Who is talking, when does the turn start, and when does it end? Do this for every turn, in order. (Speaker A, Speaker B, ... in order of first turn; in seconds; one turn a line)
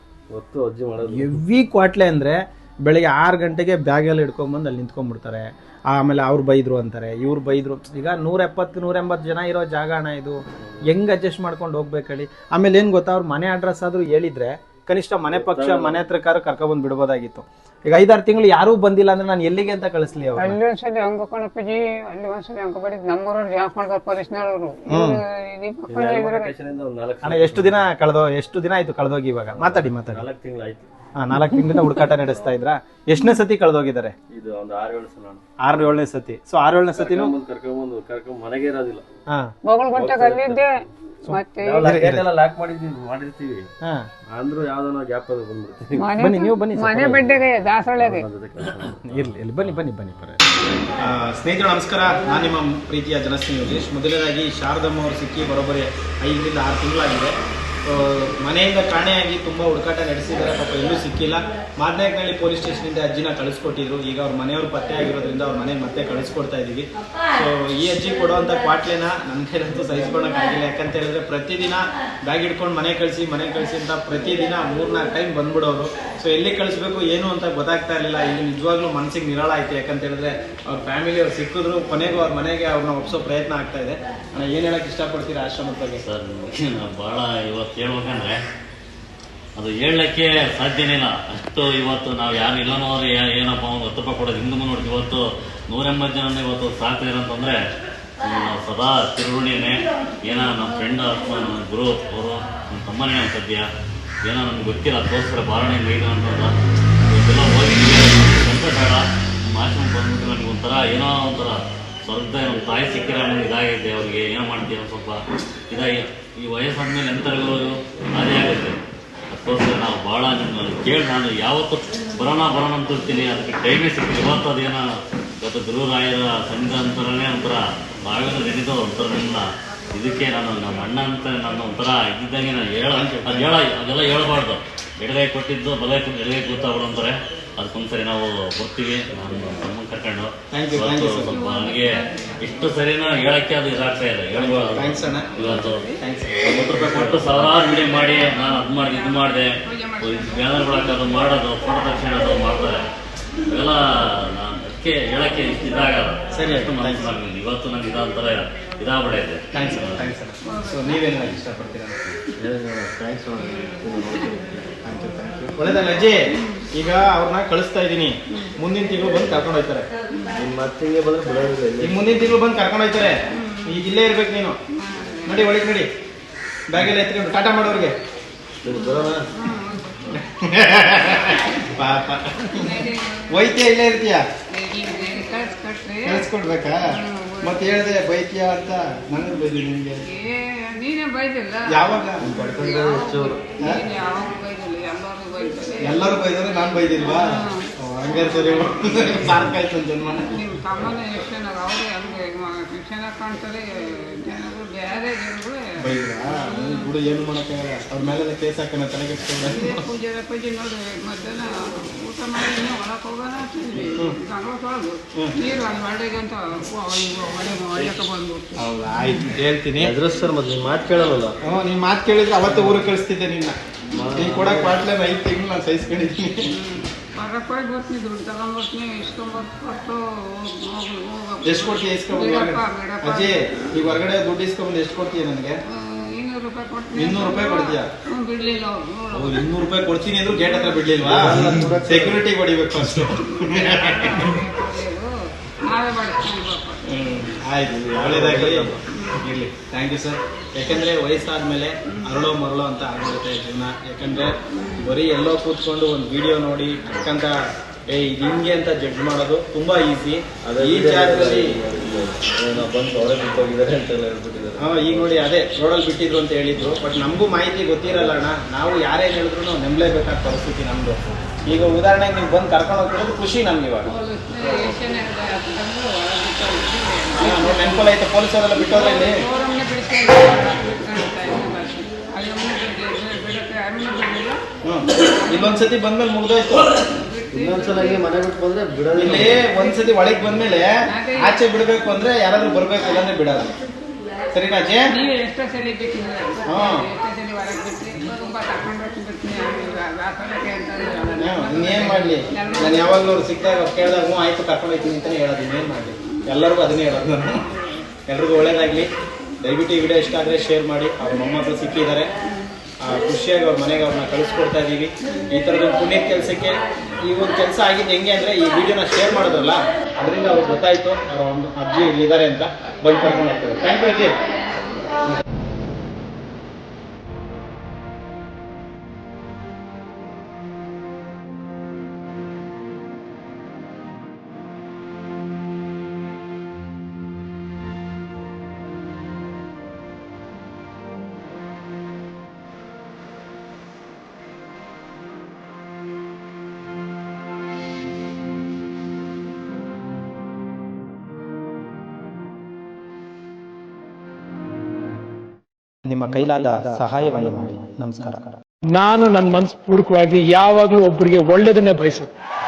Speaker A: 0.3-1.4
Speaker B: 1.1-20.6
Speaker A: 15.3-16.0
Speaker C: 20.4-26.5
Speaker B: 24.9-25.2
Speaker A: 25.9-27.9
Speaker B: 27.2-30.2
Speaker A: 29.5-30.9
Speaker B: 31.2-34.1
Speaker A: 34.3-35.4
Speaker B: 35.6-37.3
Speaker A: 36.9-39.0
Speaker C: 39.6-40.7
Speaker A: 39.9-40.6
Speaker B: 41.2-42.3
Speaker C: 41.3-41.9
Speaker A: 41.6-43.7
Speaker A: 44.3-46.1
Speaker C: 46.0-48.2
Speaker B: 46.2-47.3
Speaker A: 48.0-49.2
Speaker B: 49.0-50.4
Speaker B: 51.0-57.3
Speaker B: 57.9-86.0
Speaker D: 86.0-88.4
Speaker D: 89.6-97.6
Speaker D: 98.2-103.7
Speaker D: 104.2-106.5
Speaker D: 107.1-118.8
Speaker D: 119.3-124.8
Speaker D: 125.4-145.9
Speaker B: 132.9-133.5
Speaker B: 140.5-141.4
Speaker C: 141.3-142.5
Speaker B: 144.3-147.5
Speaker C: 145.4-146.0
Speaker D: 146.4-152.8
Speaker C: 148.1-151.3
Speaker D: 153.4-160.1
Speaker B: 156.3-157.1
Speaker B: 159.5-162.0
Speaker C: 160.4-161.1
Speaker A: 162.4-164.8
Speaker B: 164.8-169.9
Speaker C: 166.4-166.7
Speaker C: 170.1-170.4
Speaker A: 170.3-172.2
Speaker B: 171.8-174.6
Speaker C: 173.3-173.7
Speaker C: 174.7-175.6
Speaker B: 175.2-175.9
Speaker B: 176.7-177.9
Speaker A: 178.6-179.2
Speaker C: 178.7-180.1
Speaker B: 180.1-182.8
Speaker C: 181.2-181.6
Speaker C: 182.4-183.6
Speaker B: 183.3-184.2
Speaker C: 184.5-186.3
Speaker B: 186.1-186.8
Speaker C: 186.8-187.7
Speaker B: 187.4-190.0
Speaker C: 190.1-196.4
Speaker B: 191.7-192.3
Speaker A: 192.2-193.4
Speaker B: 195.8-200.4
Speaker C: 196.9-199.4
Speaker C: 200.2-207.0
Speaker B: 205.8-209.8
Speaker C: 209.4-218.7
Speaker B: 218.6-219.9
Speaker A: 219.8-221.4
Speaker B: 221.4-223.6
Speaker A: 222.4-222.8
Speaker A: 223.9-224.8
Speaker B: 224.1-226.5
Speaker C: 226.5-233.9
Speaker B: 231.4-235.6
Speaker C: 235.7-239.5
Speaker B: 236.9-237.9
Speaker B: 239.1-244.4
Speaker C: 240.3-241.0
Speaker A: 241.0-242.2
Speaker C: 243.1-247.2
Speaker B: 246.8-257.3
Speaker A: 247.7-248.8
Speaker C: 248.9-249.2
Speaker C: 251.9-252.3
Speaker C: 254.5-254.9
Speaker B: 257.9-261.6
Speaker A: 260.4-265.2
Speaker B: 264.6-273.9
Speaker C: 273.9-277.9
Speaker A: 274.4-274.7
Speaker B: 277.2-279.2
Speaker C: 278.6-285.8
Speaker B: 284.6-286.9
Speaker C: 286.6-288.2
Speaker A: 287.3-289.4
Speaker B: 288.9-293.5
Speaker C: 290.9-291.4
Speaker B: 294.3-294.9
Speaker C: 294.9-303.2
Speaker B: 296.4-296.9
Speaker B: 301.2-307.5
Speaker C: 307.2-307.9
Speaker B: 308.1-312.1
Speaker C: 312.3-312.6
Speaker B: 312.8-324.1
Speaker C: 315.1-315.3
Speaker B: 355.9-358.3
Speaker E: 358.8-362.1